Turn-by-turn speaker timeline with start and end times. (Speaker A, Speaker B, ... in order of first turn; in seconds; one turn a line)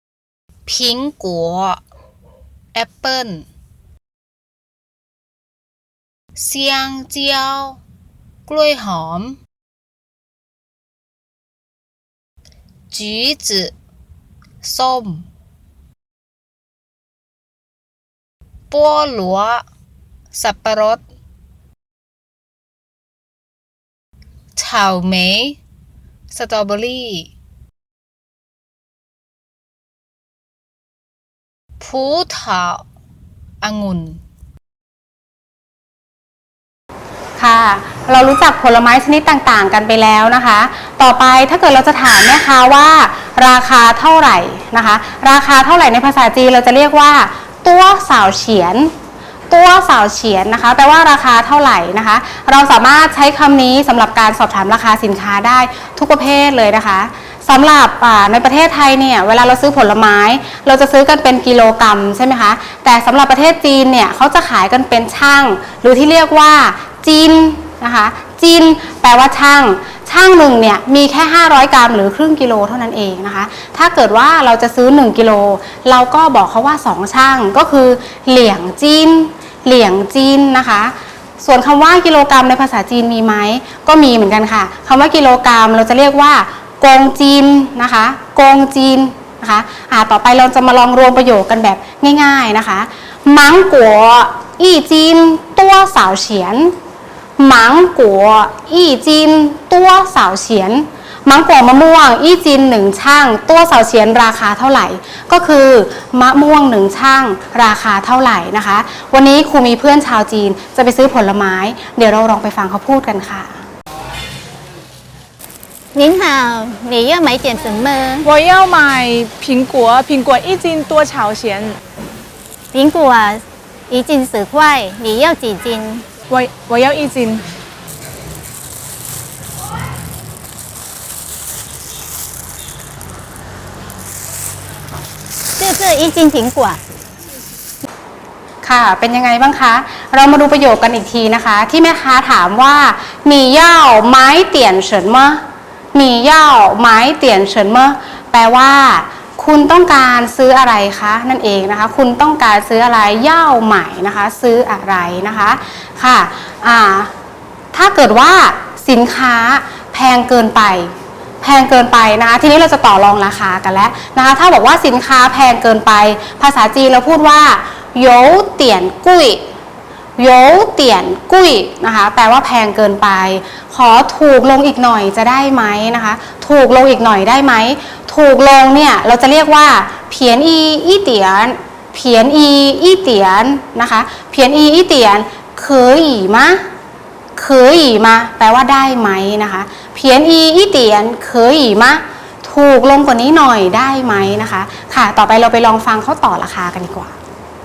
Speaker A: 0.7-1.8
Speaker A: 2.7-3.5
Speaker A: 6.4-7.8
Speaker A: 8.5-9.4
Speaker A: 12.9-13.7
Speaker A: 14.6-15.2
Speaker A: 18.7-19.6
Speaker A: 20.3-21.0
Speaker A: 24.6-25.6
Speaker A: 26.3-27.3
Speaker A: 31.8-32.8
Speaker A: 33.6-34.2
Speaker B: 37.4-48.9
Speaker B: 49.5-96.7
Speaker B: 97.4-113.6
Speaker C: 115.9-118.3
Speaker D: 118.2-121.8
Speaker C: 122.7-126.0
Speaker D: 126.3-127.4
Speaker C: 135.6-136.8
Speaker B: 138.6-145.4
Speaker B: 145.9-157.1
Speaker B: 157.7-169.4
Speaker B: 170.2-186.6
Speaker B: 187.3-197.2